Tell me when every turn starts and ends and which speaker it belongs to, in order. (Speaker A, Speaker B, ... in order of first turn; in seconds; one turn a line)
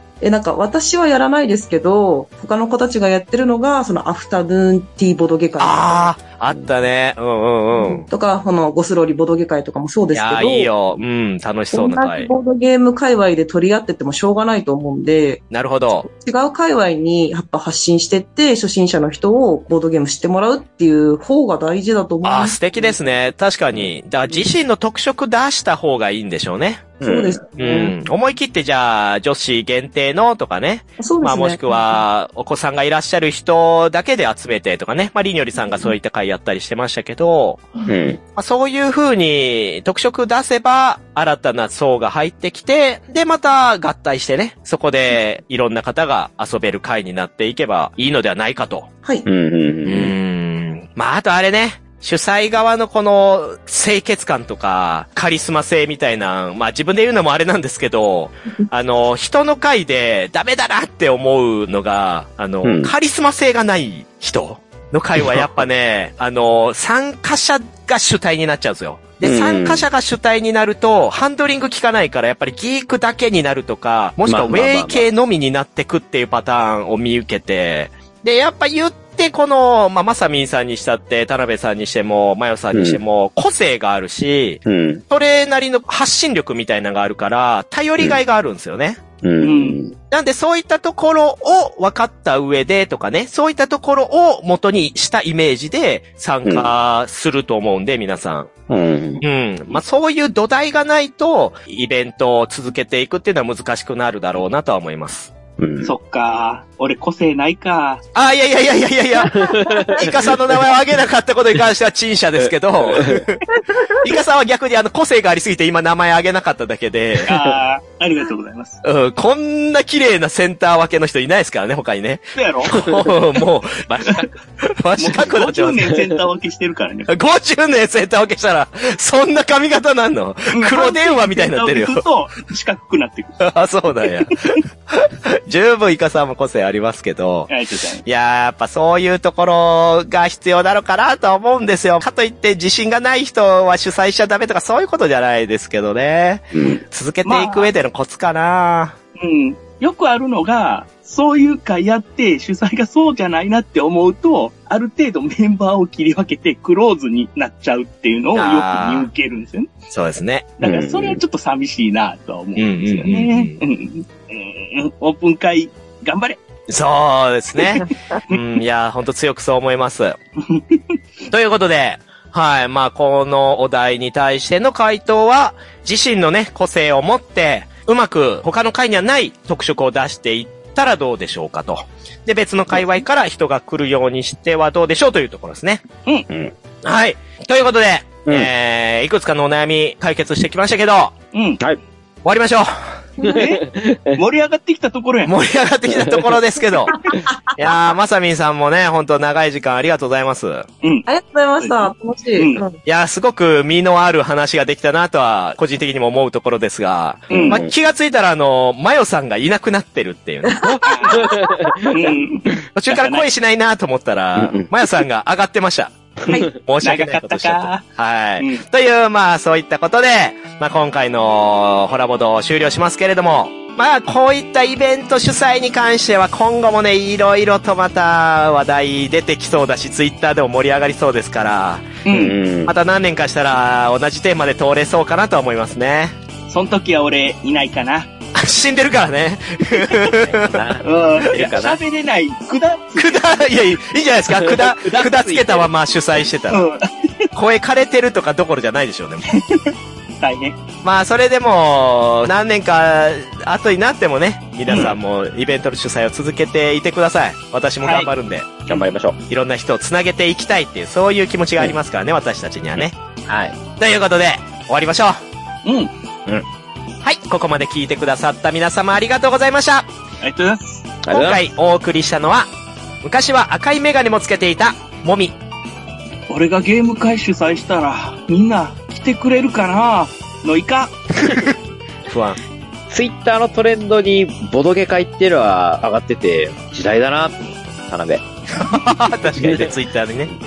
Speaker A: 0.2-6.1
Speaker B: 5.6-8.1
Speaker A: 7.7-10.7
Speaker B: 10.1-12.3
Speaker A: 11.7-15.4
Speaker B: 15.5-16.1
Speaker A: 16.0-22.6
Speaker B: 22.2-27.0
Speaker C: 27.0-27.4
Speaker A: 27.0-27.9
Speaker B: 27.5-37.7
Speaker A: 31.0-32.0
Speaker C: 37.9-38.2
Speaker B: 38.3-48.9
Speaker C: 49.2-50.1
Speaker B: 49.9-89.0
Speaker C: 62.6-62.9
Speaker C: 69.2-69.8
Speaker C: 74.2-75.0
Speaker C: 82.7-83.0
Speaker C: 84.7-85.0
Speaker C: 89.2-89.9
Speaker D: 89.4-89.8
Speaker B: 90.1-98.5
Speaker C: 96.4-96.7
Speaker C: 98.7-99.2
Speaker B: 99.2-105.3
Speaker C: 105.6-105.9
Speaker D: 105.8-108.0
Speaker B: 108.1-117.4
Speaker C: 109.3-110.7
Speaker A: 109.5-109.9
Speaker C: 112.8-113.2
Speaker D: 117.2-118.8
Speaker B: 118.8-125.9
Speaker D: 122.3-123.1
Speaker D: 124.0-124.3
Speaker D: 125.0-127.1
Speaker B: 127.1-132.0
Speaker D: 130.5-133.4
Speaker B: 133.4-137.5
Speaker D: 134.0-134.6
Speaker D: 137.5-138.0
Speaker B: 138.0-149.0
Speaker C: 146.5-146.8
Speaker D: 147.2-147.7
Speaker D: 149.2-159.7
Speaker B: 158.3-159.1
Speaker B: 159.9-160.6
Speaker D: 160.6-166.4
Speaker C: 160.6-161.2
Speaker B: 162.6-163.6
Speaker B: 166.7-170.2
Speaker D: 167.6-168.4
Speaker D: 170.5-170.8
Speaker B: 171.3-185.9
Speaker C: 186.3-186.5
Speaker B: 186.8-191.2
Speaker D: 191.3-191.6
Speaker B: 192.2-193.0
Speaker D: 193.2-195.3
Speaker C: 193.2-194.2
Speaker B: 195.2-197.0
Speaker C: 195.9-196.4
Speaker A: 197.0-197.3
Speaker B: 197.5-200.7
Speaker D: 200.8-201.1
Speaker A: 201.1-202.8
Speaker D: 201.6-202.6
Speaker B: 202.8-211.3
Speaker C: 207.3-207.7
Speaker D: 207.3-207.6
Speaker A: 210.5-211.8
Speaker D: 210.8-211.3
Speaker C: 211.2-212.1
Speaker D: 211.8-213.3
Speaker B: 212.8-232.0
Speaker C: 214.3-214.7
Speaker D: 216.8-217.8
Speaker D: 218.4-218.6
Speaker D: 232.0-232.3
Speaker C: 232.1-232.7
Speaker B: 232.7-236.2
Speaker D: 236.5-238.1
Speaker B: 238.3-240.6
Speaker C: 239.9-241.8
Speaker D: 240.8-243.4
Speaker B: 243.0-246.6
Speaker C: 244.3-245.7
Speaker D: 246.5-247.3
Speaker B: 247.3-249.3
Speaker D: 249.3-250.6
Speaker B: 250.8-258.6
Speaker C: 258.7-259.2
Speaker B: 259.3-262.9
Speaker C: 263.3-263.6
Speaker B: 263.8-265.2
Speaker D: 265.6-265.9
Speaker B: 267.0-269.9
Speaker D: 270.2-270.9
Speaker C: 271.0-271.4
Speaker B: 271.1-272.5
Speaker B: 273.0-275.3
Speaker D: 276.3-280.9
Speaker B: 282.1-282.4
Speaker C: 282.9-288.8
Speaker B: 288.5-290.3
Speaker C: 289.3-289.7